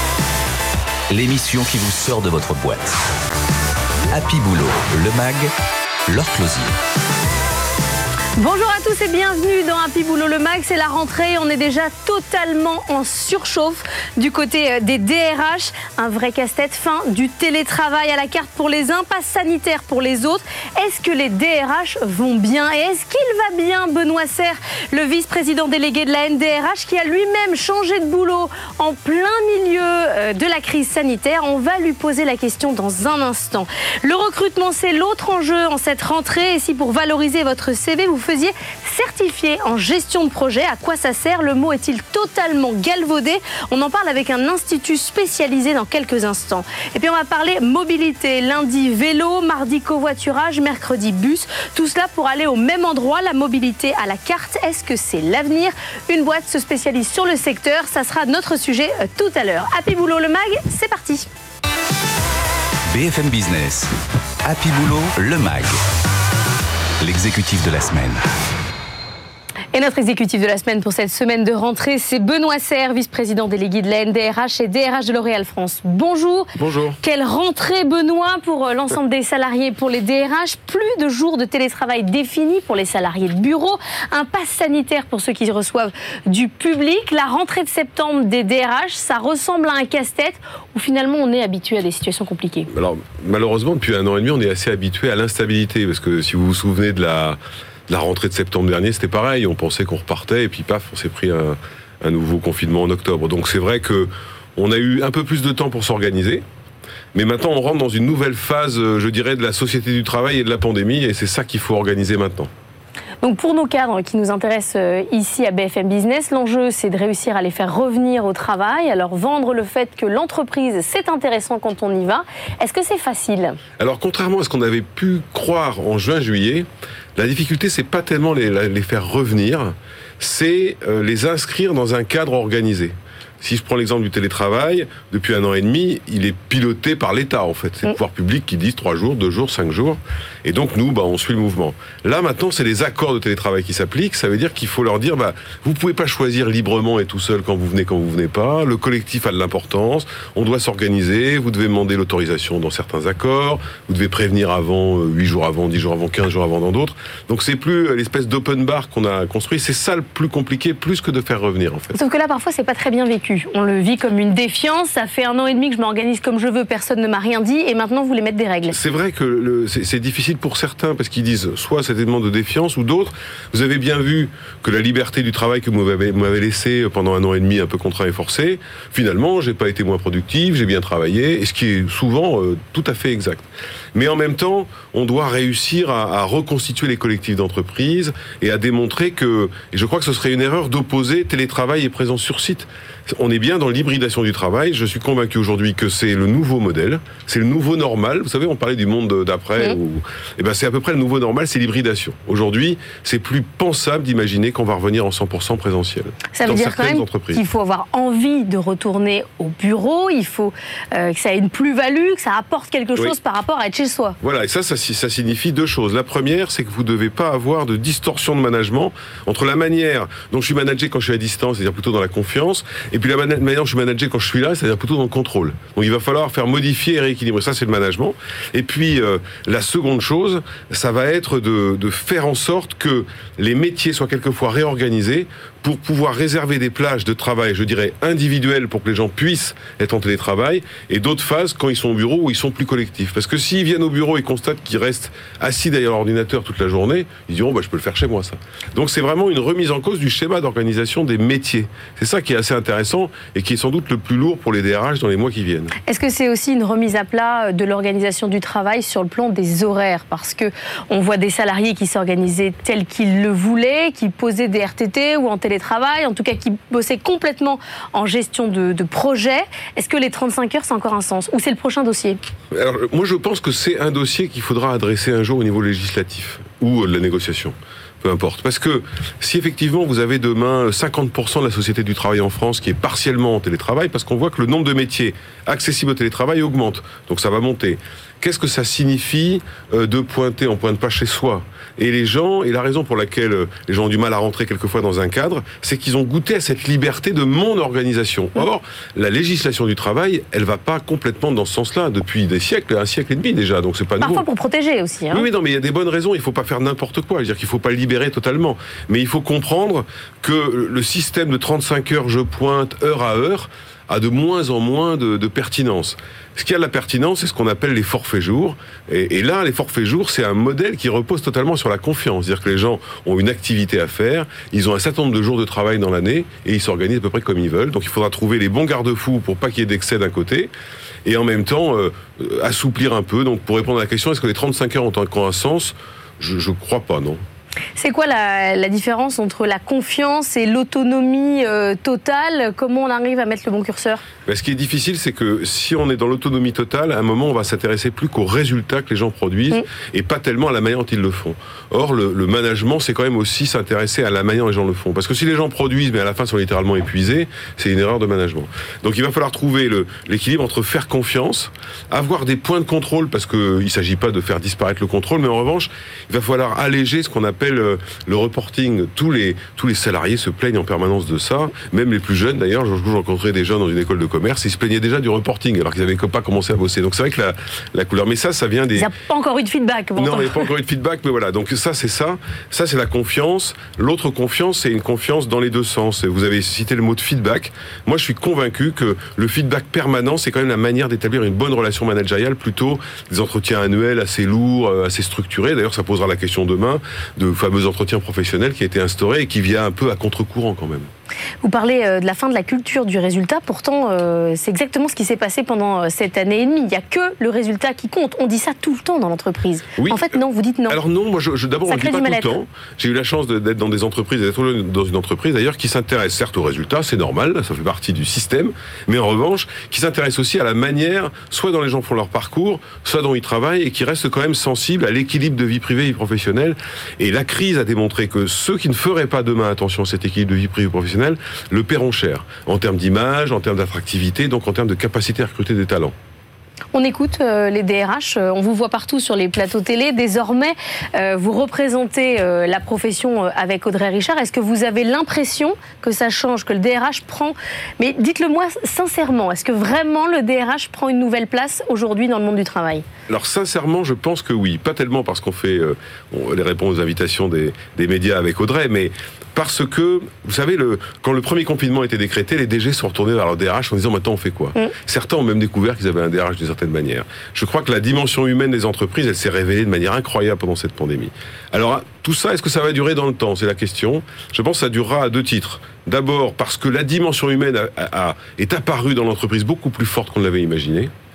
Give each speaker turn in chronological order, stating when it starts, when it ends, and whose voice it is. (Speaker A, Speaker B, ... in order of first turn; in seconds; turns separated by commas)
Speaker A: 1.1-3.0, Speaker A: 4.1-5.5, Speaker A: 6.1-6.7, Speaker B: 8.4-61.3, Speaker A: 62.9-63.9, Speaker A: 64.4-65.8, Speaker A: 67.0-68.2, Speaker B: 69.7-76.5, Speaker C: 76.6-77.0, Speaker B: 77.0-92.7, Speaker C: 92.7-106.4, Speaker C: 107.1-112.5, Speaker B: 113.2-123.6, Speaker C: 123.8-162.0, Speaker B: 161.9-168.8, Speaker C: 168.7-207.4, Speaker B: 206.3-214.2, Speaker C: 214.2-255.7, Speaker B: 255.9-272.2, Speaker C: 272.5-304.2, Speaker B: 304.0-305.3, Speaker C: 305.1-330.5, Speaker C: 331.1-337.2, Speaker B: 337.8-344.0, Speaker C: 344.3-378.9, Speaker B: 378.8-380.4, Speaker C: 380.0-400.9, Speaker B: 401.4-410.8, Speaker C: 409.8-410.1, Speaker C: 410.7-435.9, Speaker B: 411.7-412.3, Speaker B: 436.7-452.9, Speaker C: 453.1-480.9